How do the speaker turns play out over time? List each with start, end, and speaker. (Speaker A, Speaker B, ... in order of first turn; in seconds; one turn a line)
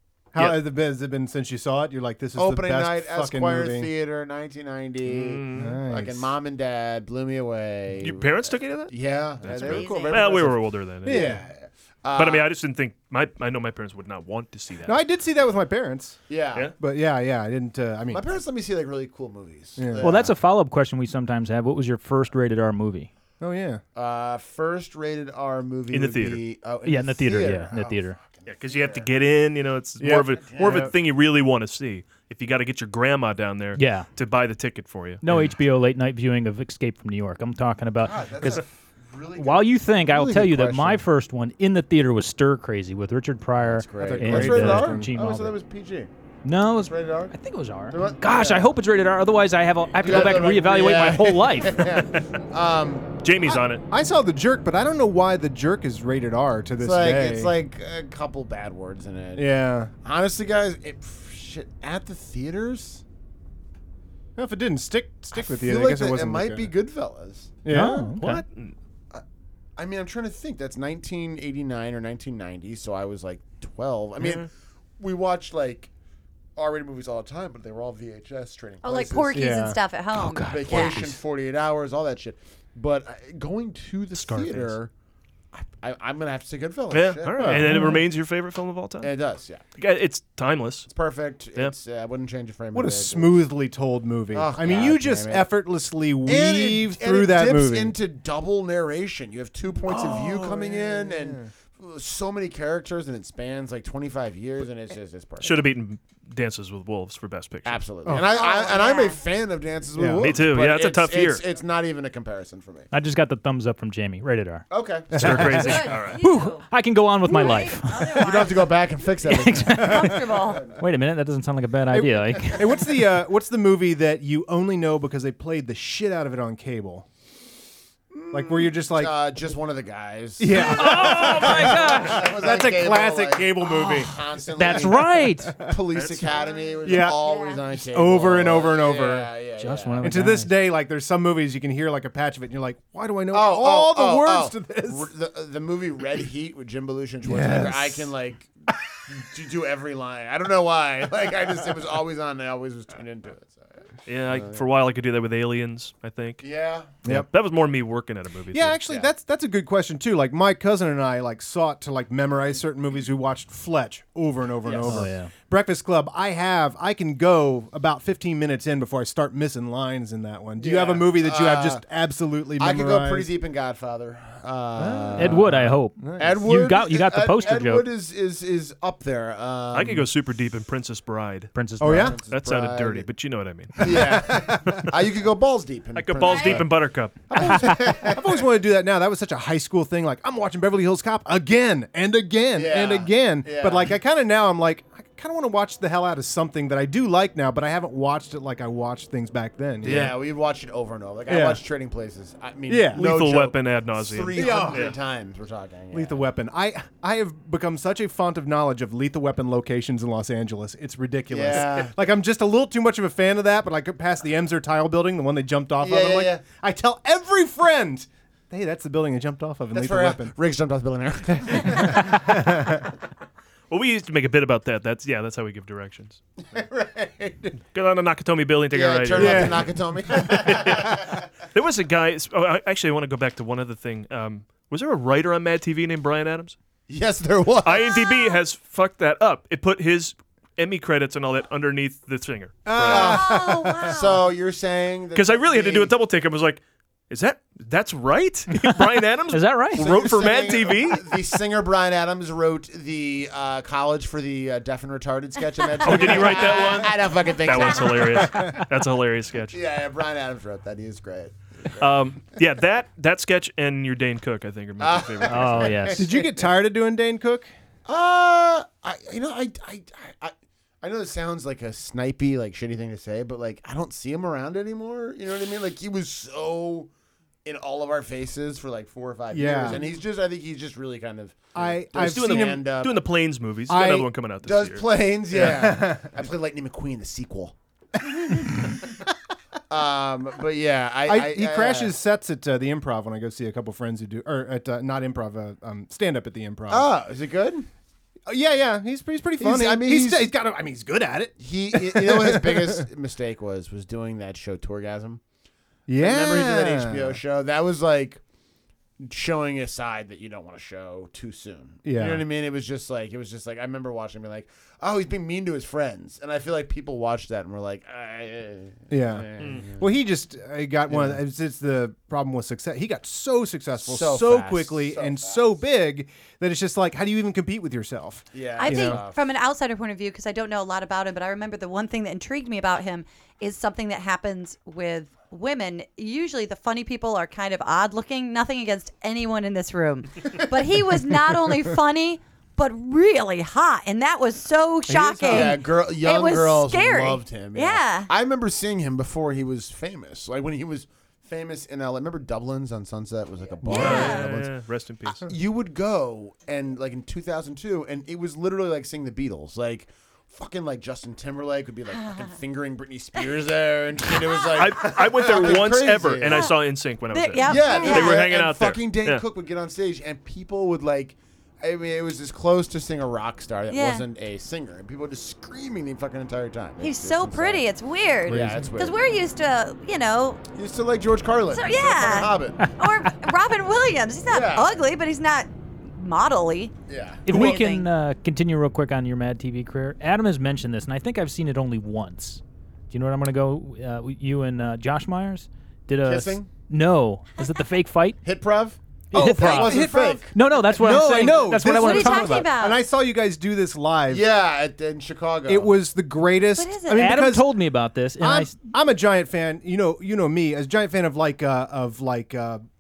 Speaker A: 0.3-3.9
Speaker B: 2.4-12.5
Speaker C: 5.0-5.8
Speaker A: 5.5-6.3
Speaker C: 8.0-11.3
Speaker D: 9.5-10.2
Speaker A: 11.1-11.5
Speaker C: 12.2-15.0
Speaker A: 14.9-16.2
Speaker B: 16.3-16.7
Speaker A: 16.8-18.3
Speaker B: 18.1-20.4
Speaker A: 19.8-20.1
Speaker E: 20.0-23.1
Speaker A: 23.4-23.8
Speaker B: 23.9-29.1
Speaker C: 25.9-26.4
Speaker E: 26.9-28.2
Speaker C: 28.5-35.2
Speaker A: 30.0-30.9
Speaker B: 30.5-30.8
Speaker E: 33.8-34.1
Speaker E: 35.2-38.6
Speaker B: 38.0-41.0
Speaker E: 39.4-45.6
Speaker B: 43.6-46.1
Speaker A: 44.0-45.1
Speaker E: 46.4-51.9
Speaker B: 46.8-47.3
Speaker B: 47.9-48.8
Speaker B: 50.0-53.1
Speaker C: 53.2-53.8
Speaker A: 53.5-57.5
Speaker B: 56.8-59.5
Speaker A: 59.4-59.9
Speaker B: 60.0-63.0
Speaker A: 64.4-66.7
Speaker B: 65.3-67.6
Speaker A: 67.7-68.2
Speaker E: 67.7-68.4
Speaker C: 68.2-68.8
Speaker B: 69.8-75.9
Speaker C: 74.2-74.5
Speaker B: 76.6-79.5
Speaker D: 78.8-81.0
Speaker A: 79.3-79.8
Speaker E: 80.1-81.2
Speaker B: 80.5-84.9
Speaker C: 84.1-84.8
Speaker B: 85.5-87.9
Speaker C: 86.9-89.1
Speaker A: 87.4-88.0
Speaker B: 89.0-89.6
Speaker C: 89.8-90.9
Speaker B: 90.9-93.5
Speaker A: 92.7-98.0
Speaker B: 94.3-95.5
Speaker B: 96.3-105.6
Speaker A: 99.9-101.5
Speaker C: 105.4-107.8
Speaker B: 107.7-112.9
Speaker D: 108.2-109.2
Speaker A: 110.0-110.3
Speaker C: 110.2-111.4
Speaker E: 112.9-114.7
Speaker B: 114.7-115.5
Speaker C: 115.2-116.2
Speaker E: 115.2-118.4
Speaker D: 115.6-116.7
Speaker D: 117.3-118.7
Speaker B: 118.1-120.8
Speaker E: 119.2-122.6
Speaker D: 119.7-120.6
Speaker A: 121.9-127.1
Speaker B: 128.1-140.1
Speaker A: 128.3-129.2
Speaker A: 130.4-134.9
Speaker E: 130.6-132.2
Speaker E: 134.6-135.6
Speaker C: 135.9-136.6
Speaker A: 136.8-137.2
Speaker D: 137.0-137.6
Speaker A: 137.9-139.3
Speaker E: 139.6-140.6
Speaker A: 140.0-145.1
Speaker B: 143.3-148.5
Speaker A: 147.2-148.1
Speaker B: 149.1-154.6
Speaker C: 154.1-156.4
Speaker B: 156.4-156.9
Speaker C: 157.1-158.8
Speaker A: 158.5-173.3
Speaker B: 164.6-165.1
Speaker E: 164.8-165.3
Speaker B: 170.6-171.8
Speaker B: 172.6-180.1
Speaker E: 174.8-177.9
Speaker A: 175.1-176.4
Speaker C: 179.7-181.5
Speaker E: 181.5-182.2
Speaker A: 181.8-182.2
Speaker B: 181.8-183.1
Speaker C: 182.3-184.0
Speaker B: 183.8-186.8
Speaker A: 183.8-184.8
Speaker C: 185.9-187.2
Speaker D: 186.2-186.6
Speaker B: 187.3-188.4
Speaker A: 187.4-200.2
Speaker B: 192.5-194.0
Speaker B: 199.8-206.2
Speaker C: 199.8-200.1
Speaker A: 201.3-201.6
Speaker A: 202.7-203.1
Speaker C: 202.9-205.0
Speaker A: 204.3-204.9
Speaker A: 205.9-220.3
Speaker B: 211.3-211.9
Speaker B: 215.8-216.4
Speaker B: 219.7-222.3
Speaker A: 221.9-222.9
Speaker C: 223.7-226.2
Speaker B: 226.5-227.6
Speaker C: 227.7-236.6
Speaker B: 228.7-231.3
Speaker A: 229.2-229.8
Speaker B: 236.9-238.3
Speaker C: 237.6-243.2
Speaker A: 242.7-243.9
Speaker B: 242.8-245.9
Speaker D: 242.9-244.1
Speaker C: 245.2-251.4
Speaker E: 249.3-249.9
Speaker B: 249.8-258.5
Speaker C: 255.8-259.6
Speaker B: 259.5-261.9
Speaker C: 261.8-265.8
Speaker B: 264.8-266.5
Speaker E: 265.3-266.0
Speaker A: 265.9-267.5
Speaker B: 267.9-276.9
Speaker B: 277.4-283.0
Speaker A: 279.3-279.9
Speaker A: 281.6-282.7
Speaker C: 282.0-284.9
Speaker A: 283.7-284.1
Speaker B: 284.4-287.6
Speaker A: 285.3-286.1
Speaker B: 289.7-291.9
Speaker A: 291.1-296.9
Speaker B: 296.7-297.7
Speaker A: 298.3-302.9
Speaker B: 299.4-300.3
Speaker B: 301.4-305.2
Speaker A: 305.9-307.2
Speaker B: 306.0-308.2
Speaker B: 309.0-320.0
Speaker A: 311.9-312.2
Speaker A: 318.9-329.0
Speaker C: 319.4-319.6
Speaker B: 320.9-321.2
Speaker B: 323.8-325.5
Speaker B: 328.3-329.2
Speaker D: 328.6-348.1
Speaker A: 344.9-345.6
Speaker B: 345.2-354.5
Speaker A: 353.7-354.2
Speaker D: 353.7-354.3
Speaker C: 353.7-355.2
Speaker B: 355.1-366.5
Speaker C: 364.6-369.2
Speaker D: 366.3-366.5
Speaker D: 367.1-368.2
Speaker B: 367.4-377.7
Speaker D: 373.7-374.0
Speaker D: 376.8-380.4
Speaker B: 378.3-379.0
Speaker A: 378.3-378.7
Speaker B: 380.6-382.6
Speaker D: 381.5-386.7
Speaker B: 384.3-384.8
Speaker B: 386.9-387.6
Speaker E: 387.3-398.2
Speaker D: 387.3-387.9
Speaker B: 396.0-396.5
Speaker B: 398.2-400.4
Speaker E: 399.1-402.5
Speaker A: 399.1-404.2
Speaker D: 401.0-402.8
Speaker B: 404.1-405.7
Speaker A: 405.5-407.6
Speaker D: 406.6-407.2
Speaker E: 406.9-408.6
Speaker A: 408.2-412.6